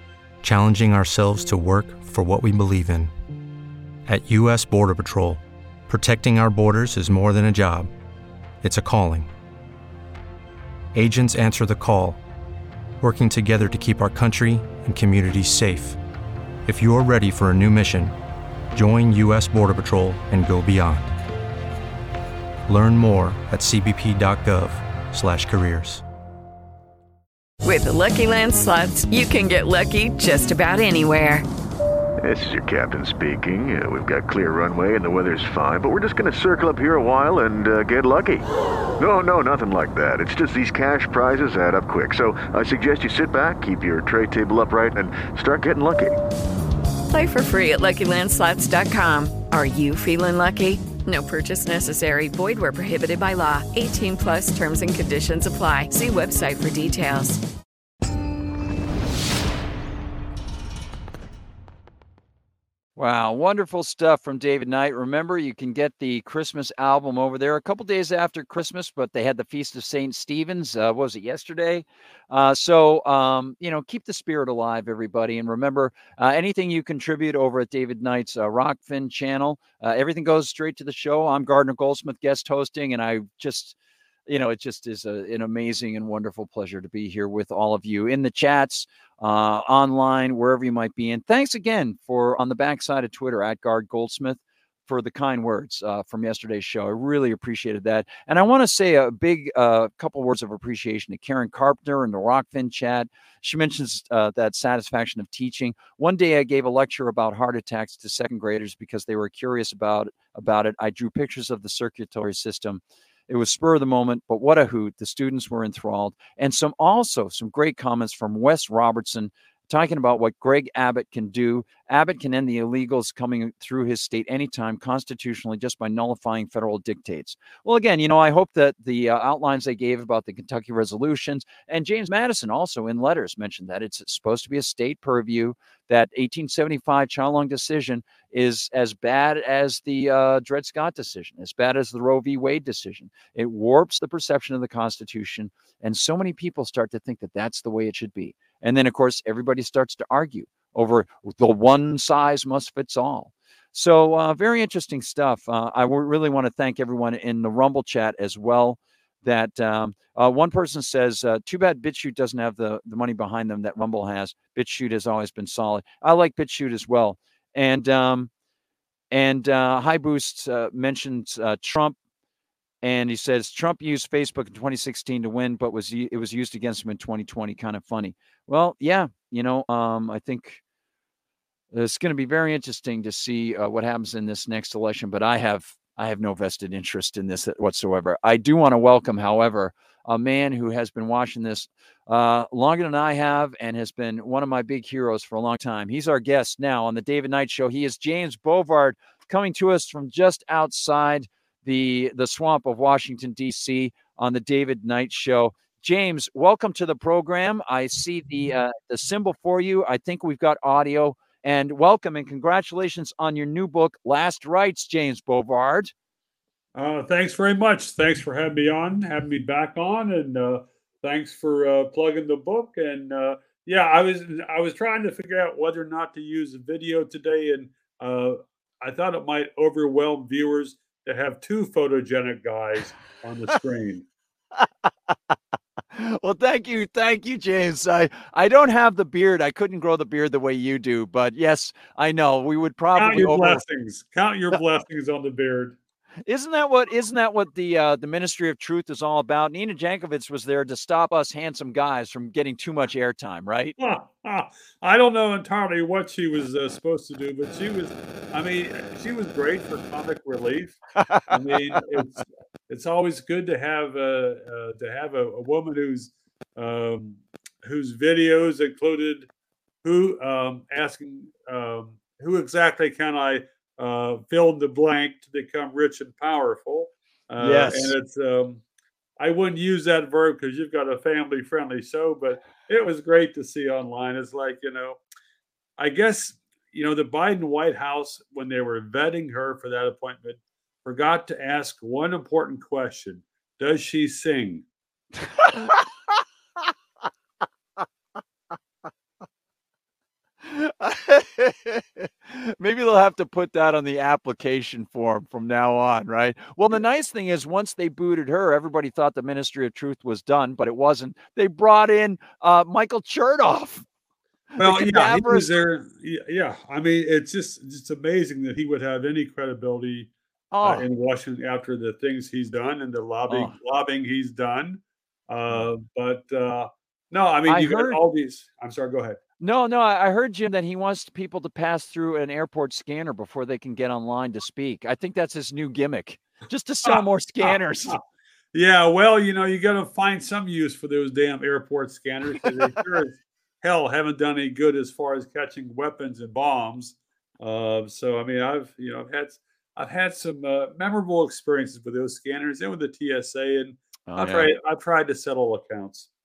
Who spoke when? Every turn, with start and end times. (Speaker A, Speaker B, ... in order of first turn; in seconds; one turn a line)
Speaker A: 0.4-3.1
Speaker A: 4.1-7.9
Speaker A: 8.6-9.3
Speaker A: 10.9-12.2
Speaker A: 13.0-16.0
Speaker A: 16.7-18.1
Speaker A: 18.7-21.1
Speaker A: 22.7-26.0
Speaker B: 27.6-31.4
Speaker C: 32.2-38.5
Speaker C: 39.0-46.2
Speaker B: 47.1-57.4
Speaker D: 63.0-83.8
Speaker D: 84.3-168.3
Speaker D: 169.1-172.0
Speaker D: 172.8-180.6
Speaker D: 181.7-215.9
Speaker E: 216.8-234.1
Speaker D: 235.9-243.6
Speaker E: 242.9-245.8
Speaker D: 246.3-253.8
Speaker E: 253.8-260.8
Speaker D: 261.0-261.4
Speaker E: 261.3-269.3
Speaker E: 269.8-278.6
Speaker D: 277.4-278.0
Speaker E: 279.2-285.0
Speaker E: 285.8-294.6
Speaker D: 295.4-295.7
Speaker D: 300.4-313.9
Speaker D: 314.5-315.5
Speaker E: 314.6-320.1
Speaker D: 320.5-320.9
Speaker E: 320.6-329.2
Speaker D: 323.3-323.6
Speaker D: 327.5-328.0
Speaker D: 329.4-338.0
Speaker E: 336.9-338.0
Speaker E: 338.5-356.1
Speaker D: 354.1-354.5